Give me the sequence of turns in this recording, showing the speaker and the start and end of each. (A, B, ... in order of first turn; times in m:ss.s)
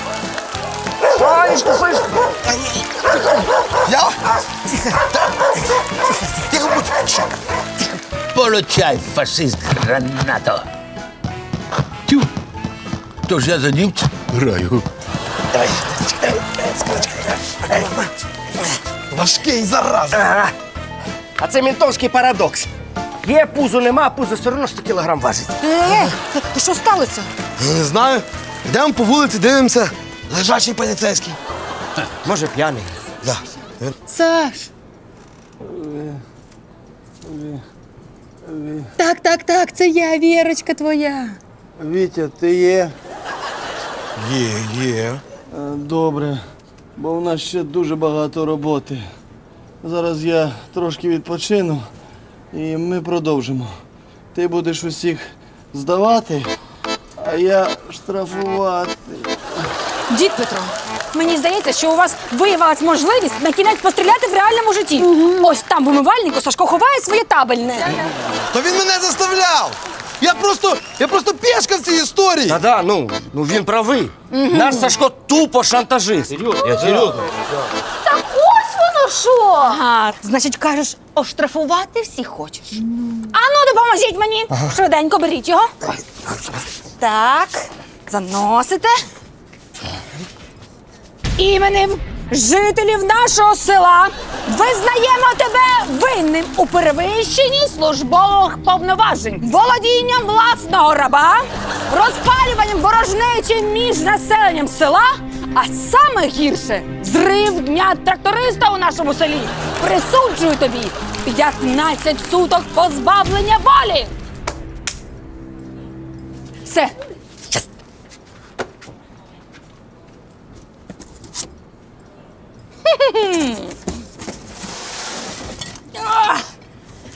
0:01.2-0:02.1 A
0:03.9-0:04.2 B
0:06.5-0:07.3 B
0:08.3-0:10.6 C
0:13.3-0:14.8 C
0:15.5-0:18.1 B
0:19.1-0:20.2 B
0:20.1-0:20.5 A
0:21.4-0:22.7 A
0:23.2-0:25.6 A
0:25.6-0:27.3 D
0:27.6-0:31.4 B
0:32.2-0:32.9 A
0:33.2-0:34.0 B
0:34.1-0:34.7 D
0:35.6-0:36.2 E
0:37.2-0:37.6 E
0:38.4-0:38.9 E
0:39.0-0:41.4 D
0:41.8-0:43.0 E
0:44.2-0:45.2 B
0:45.5-0:46.4 E
0:47.0-0:49.1 E
0:49.8-0:51.9 E
0:52.5-0:53.8 E
0:54.3-0:56.5 E
0:57.2-0:59.4 E
1:00.1-1:08.1 D
1:08.5-1:12.6 B
1:12.5-1:17.2 A
1:14.3-1:14.9 D
1:18.0-1:22.8 D
1:23.3-1:25.7 D
1:27.0-1:29.0 D
1:31.4-1:54.1 D
1:56.6-1:56.9 D
2:02.9-2:03.8 D
2:06.0-2:06.4 D